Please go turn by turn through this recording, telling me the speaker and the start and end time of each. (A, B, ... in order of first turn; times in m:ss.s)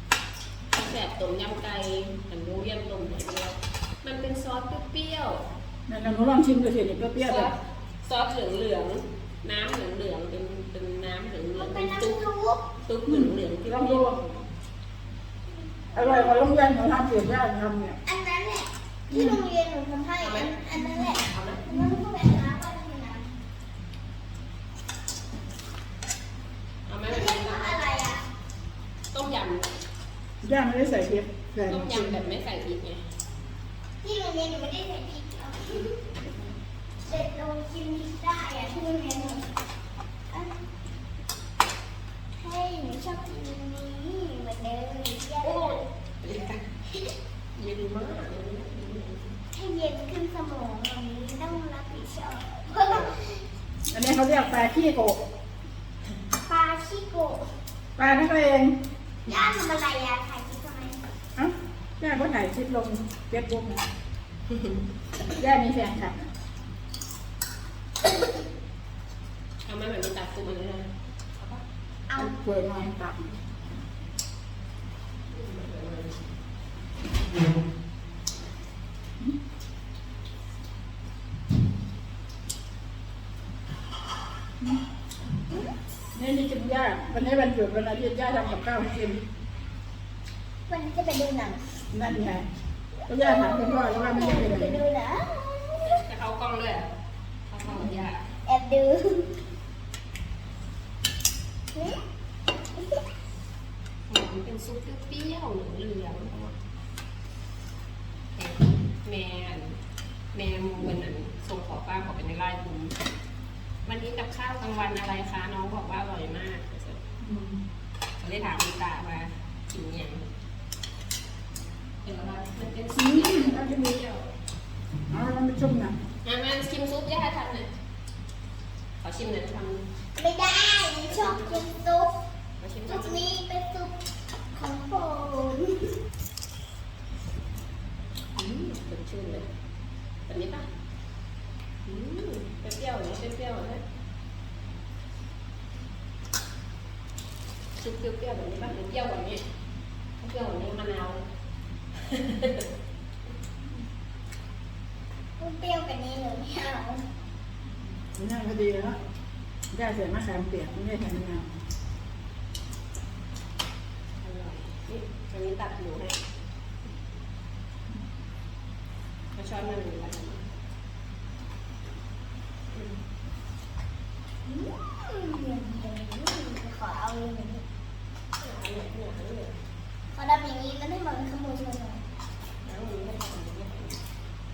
0:00.7-0:05.5 A
0:05.9-0:07.5 B
0:07.2-0:12.2 A
0:11.6-0:12.6 C
0:12.8-0:14.5 A
0:13.0-0:14.2 B
0:15.9-0:16.4 C
0:15.9-0:18.0 B
0:18.0-0:23.3 C
0:19.1-0:19.4 B
0:20.2-0:20.6 A
0:20.8-0:21.1 B
0:21.3-0:21.7 A
0:26.8-0:27.8 A
0:27.1-0:28.2 C
0:29.1-0:29.7 A
0:30.4-0:32.2 B
0:31.7-0:33.0 A
0:34.0-0:36.0 C
0:37.0-0:39.4 C
0:42.4-0:45.9 C
0:45.4-0:46.7 A
0:47.5-0:49.4 A
0:49.5-0:53.4 C
0:53.9-0:55.2 B
0:56.4-0:57.4 C
0:58.0-0:58.8 B
0:59.2-1:01.0 C
1:01.4-1:03.8 B
1:05.4-1:06.3 B
1:09.6-1:11.6 A
1:12.1-1:13.3 B
1:15.3-1:16.2 A
1:26.1-1:29.2 B
1:30.7-1:31.6 C
1:31.9-1:32.5 B
1:33.1-1:34.8 B
1:33.1-1:36.0 C
1:35.8-1:36.9 A
1:37.5-1:38.3 A
1:38.4-1:39.3 C
1:41.7-1:42.0 C
1:44.1-1:46.6 A
1:48.3-1:49.8 A
1:50.3-1:53.0 A
1:53.8-1:57.0 A
1:57.2-1:57.6 B
1:58.2-2:00.2 A
2:02.0-2:04.2 A
2:02.9-2:04.0 B
2:05.1-2:05.9 B
2:06.2-2:07.7 A
2:09.0-2:09.9 A
2:10.1-2:12.1 C
2:11.1-2:11.6 A
2:12.6-2:13.2 A
2:12.8-2:13.9 C
2:14.5-2:15.9 C
2:18.4-2:19.5 A
2:20.3-2:20.7 A
2:21.8-2:23.8 A
2:27.8-2:29.4 A
2:30.2-2:31.2 A
2:32.0-2:32.7 A
2:35.4-2:37.0 C
2:38.1-2:39.0 B
2:39.7-2:41.5 B
2:44.2-2:46.2 A
2:49.4-2:50.4 A
2:52.7-2:53.0 A
2:54.5-2:57.6 C
2:58.4-2:59.5 A
3:00.1-3:02.0 C
3:02.6-3:04.0 A